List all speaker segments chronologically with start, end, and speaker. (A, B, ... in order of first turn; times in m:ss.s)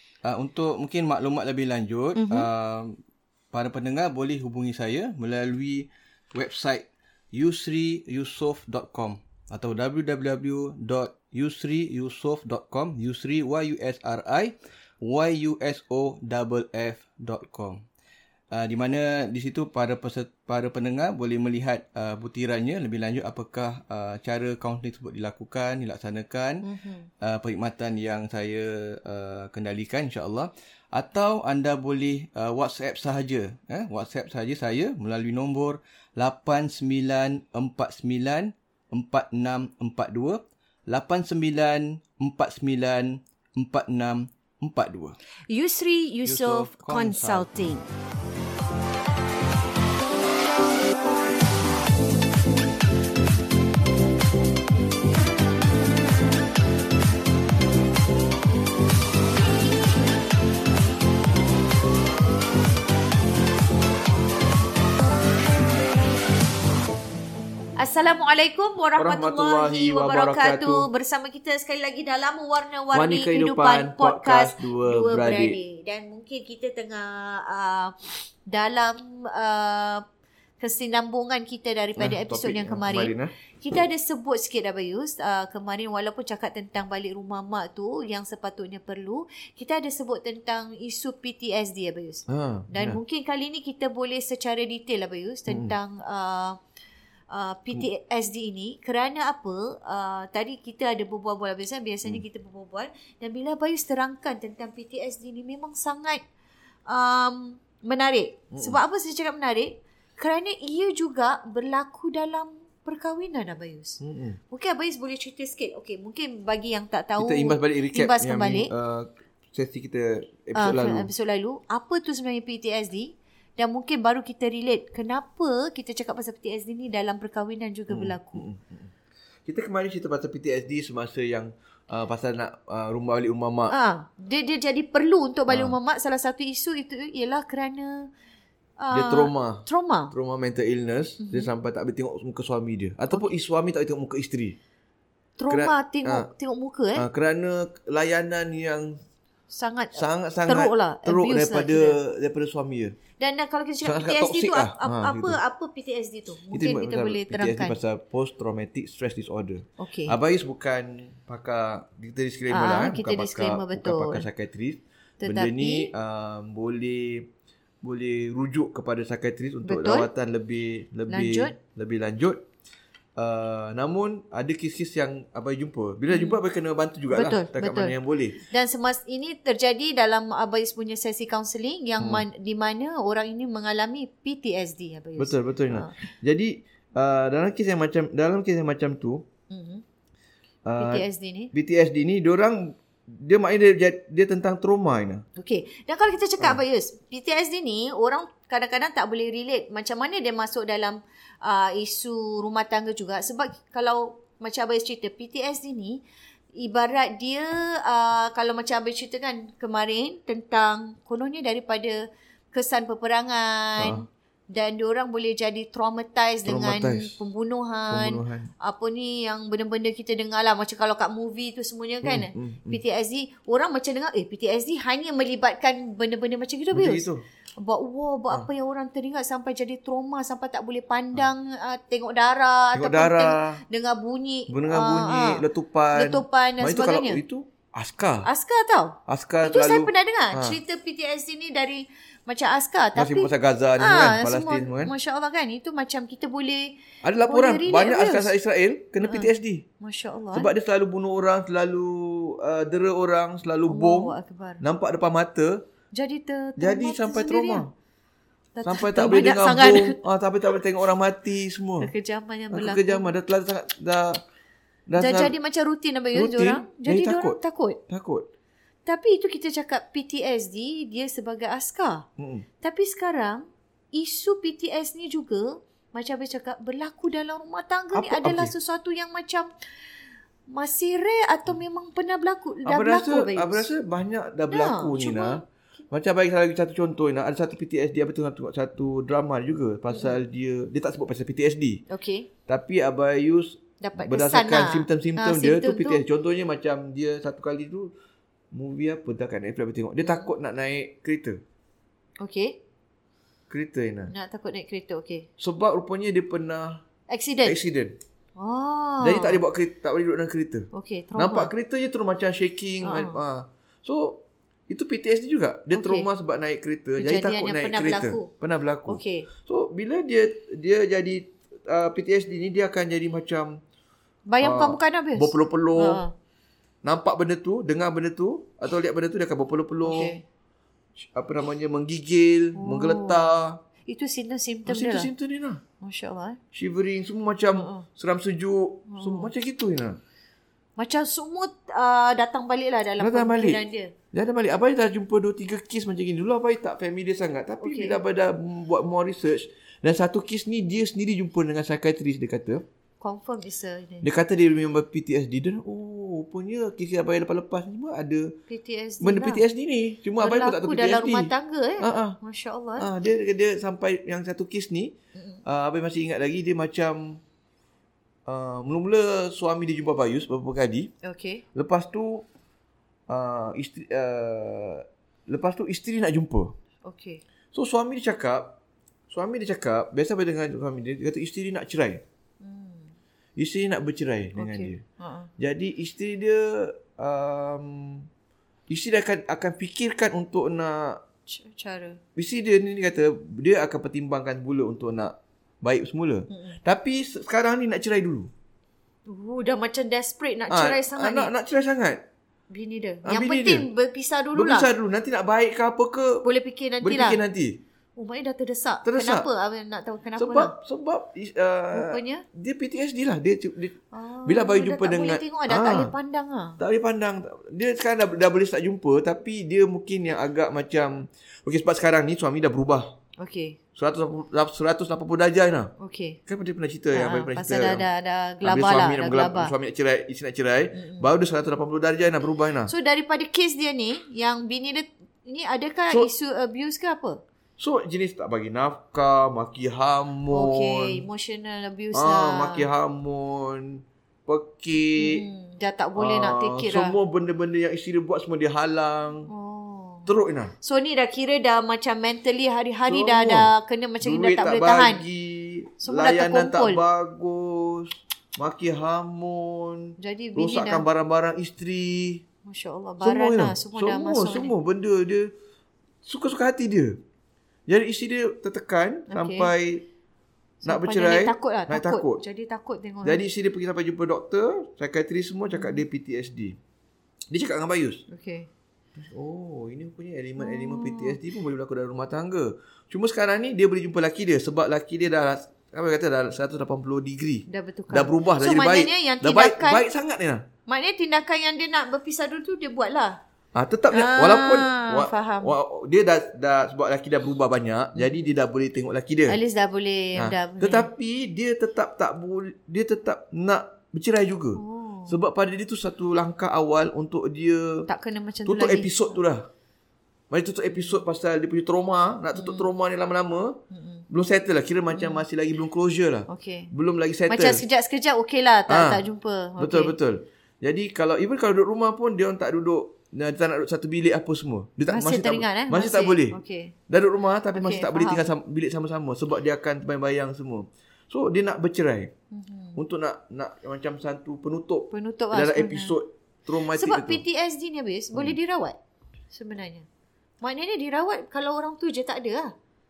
0:00.2-0:03.0 A
0:02.1-0:02.5 B
0:03.5-0:17.8 A
0:18.5-0:26.7 A
0:26.6-0:27.1 B
0:27.2-0:45.2 A
0:45.5-0:47.9 B
0:46.2-0:47.5 A
1:07.8-1:20.0 B
1:09.0-1:10.9 A
1:12.9-1:15.6 A
1:20.6-1:36.6 B
1:22.0-1:23.3 A
1:32.3-1:33.0 A
1:35.5-1:35.8 A
1:37.3-1:46.2 B
1:46.9-1:54.0 B
1:48.5-1:48.8 A
1:54.0-1:54.4 A
1:54.5-1:58.7 B
1:57.2-2:01.1 A
2:00.5-2:08.4 B
2:07.9-2:08.9 A
2:09.4-2:13.7 A
2:13.7-2:18.1 B
2:15.5-2:15.8 A
2:18.8-2:20.1 B
2:18.9-2:24.6 A
2:21.2-2:21.5 B
2:25.4-2:27.0 B
2:25.5-2:26.3 A
2:27.0-2:29.0 A
2:29.5-2:32.0 B
2:29.9-2:33.0 A
2:33.2-2:37.8 B
2:33.8-2:35.4 A
2:36.5-2:47.3 A
2:39.8-2:40.1 B
2:42.5-2:44.2 B
2:45.2-2:45.9 B
2:47.8-2:52.4 A
2:49.6-2:50.1 B
2:51.1-2:51.5 B
2:53.2-2:58.4 A
2:56.1-2:56.4 B
2:57.1-3:06.0 B
3:02.0-3:02.2 A
3:05.2-3:09.2 A
3:09.5-3:09.8 B
3:10.6-3:15.2 A
3:10.8-3:11.5 B
3:15.4-3:26.0 B
3:26.6-3:32.0 B
3:32.5-3:57.2 B
3:33.8-3:34.0 A
3:36.4-3:37.1 A
3:37.9-3:38.5 A
3:42.0-3:42.8 A
3:46.7-3:47.2 A
3:52.7-3:53.6 A
3:54.5-3:58.3 A
3:58.2-4:08.3 B
3:59.1-4:00.6 A
4:02.9-4:04.9 A
4:07.0-4:09.6 A
4:09.0-4:10.5 B
4:10.3-4:15.6 A
4:13.7-4:14.6 B
4:15.9-4:17.6 B
4:16.6-4:17.7 A
4:18.6-4:20.0 B
4:18.6-4:21.9 A
4:21.8-4:23.1 B
4:22.5-4:24.2 A
4:24.9-4:25.3 A
4:25.0-4:27.8 B
4:26.1-4:27.4 A
4:27.9-4:28.2 A
4:28.8-4:32.0 B
4:32.2-4:32.4 A
4:32.6-4:39.5 B
4:37.9-4:38.5 A
4:40.5-4:43.7 B
4:42.6-4:51.8 A
4:44.5-4:45.4 B
4:49.9-4:50.2 B
4:51.9-4:52.3 B
4:52.5-4:57.9 A
4:53.8-4:56.0 B
4:58.5-5:01.4 A
5:00.0-5:00.3 B
5:02.2-5:02.6 B
5:03.5-5:04.1 A
5:04.1-5:05.3 B
5:05.4-5:06.8 A
5:07.1-5:07.6 B
5:07.4-5:07.9 A
5:08.4-5:09.4 B
5:09.0-5:23.6 A
5:10.7-5:11.5 B
5:12.8-5:13.2 B
5:15.7-5:16.1 B
5:17.0-5:18.3 B
5:18.9-5:19.3 B
5:24.3-5:26.1 B
5:24.4-5:26.0 A
5:26.8-5:30.2 A
5:29.8-5:30.2 B
5:31.1-5:33.6 A
5:32.6-5:33.3 B
5:33.9-5:35.1 B
5:34.6-5:35.6 A
5:35.8-5:36.4 B
5:36.5-5:40.0 A
5:37.5-5:37.8 B
5:38.9-5:39.3 B
5:40.8-5:43.9 B
5:43.0-5:43.6 A
5:44.1-5:52.6 A
5:47.6-5:48.0 B
5:53.0-5:54.1 B
5:54.0-5:58.4 A
5:58.5-5:59.4 B
5:59.0-6:02.2 A
6:00.2-6:02.9 B
6:02.8-6:04.9 A
6:05.1-6:05.4 B
6:05.4-6:07.2 A
6:08.2-6:10.9 A
6:11.0-6:11.4 B
6:11.5-6:12.2 A
6:13.1-6:16.5 A
6:16.8-6:17.2 B
6:17.5-6:18.6 A
6:19.1-6:22.0 A
6:22.4-6:22.9 B
6:23.4-6:24.8 A
6:24.4-6:25.3 B
6:25.4-6:28.1 A
6:28.7-6:31.0 A
6:31.3-6:32.0 B
6:32.2-6:38.3 A
6:36.3-6:36.6 B
6:39.1-6:41.3 B
6:40.5-6:42.0 A
6:42.5-6:44.7 B
6:43.0-6:43.6 A
6:44.3-6:46.2 A
6:46.2-6:47.2 B
6:46.8-6:47.6 A
6:48.0-6:50.5 B
6:48.8-6:49.3 A
6:50.2-6:55.9 A
6:51.7-6:52.2 B
6:53.9-6:56.6 B
6:56.6-7:02.9 A
7:03.2-7:03.6 B
7:03.8-7:05.7 A
7:05.8-7:06.2 B
7:06.3-7:07.8 A
7:06.9-7:09.5 B
7:08.4-7:12.7 A
7:10.7-7:11.1 B
7:12.6-7:17.2 B
7:17.6-7:21.0 A
7:20.3-7:22.7 B
7:21.9-7:25.2 A
7:25.0-7:27.0 B
7:26.0-7:29.3 A
7:29.3-7:30.1 B
7:30.1-7:30.5 A
7:30.6-7:35.0 B
7:32.8-7:33.5 A
7:34.0-7:42.2 A
7:35.8-7:36.8 B
7:40.0-7:40.9 B
7:42.4-7:44.5 B
7:43.0-7:45.3 A
7:46.0-7:47.0 A
7:47.7-7:49.8 A
7:49.1-7:49.5 B
7:50.6-7:53.2 B
7:50.6-7:52.2 A
7:53.0-7:56.6 A
7:55.5-7:55.8 B
7:57.3-7:58.0 A
7:58.1-7:58.5 B
7:58.9-8:10.4 A
8:00.4-8:01.2 B
8:07.5-8:09.8 B
8:10.7-8:13.2 B
8:13.5-8:19.4 A
8:13.9-8:15.6 B
8:18.0-8:18.3 B
8:19.3-8:20.9 B
8:20.1-8:27.9 A
8:24.5-8:25.2 B
8:27.9-8:29.2 B
8:28.4-8:29.4 A
8:30.3-8:37.6 A
8:32.3-8:32.7 B
8:33.7-8:34.0 B
8:34.9-8:35.2 B
8:36.3-8:36.7 B
8:37.3-8:39.9 B
8:38.7-8:39.0 A
8:39.6-8:52.1 A
8:44.9-8:46.7 B
8:47.5-8:48.2 B
8:52.3-8:52.8 B
8:52.8-8:57.2 A
8:54.9-8:56.0 B
8:56.7-8:58.8 B
8:59.3-8:59.8 B
9:00.4-9:02.5 B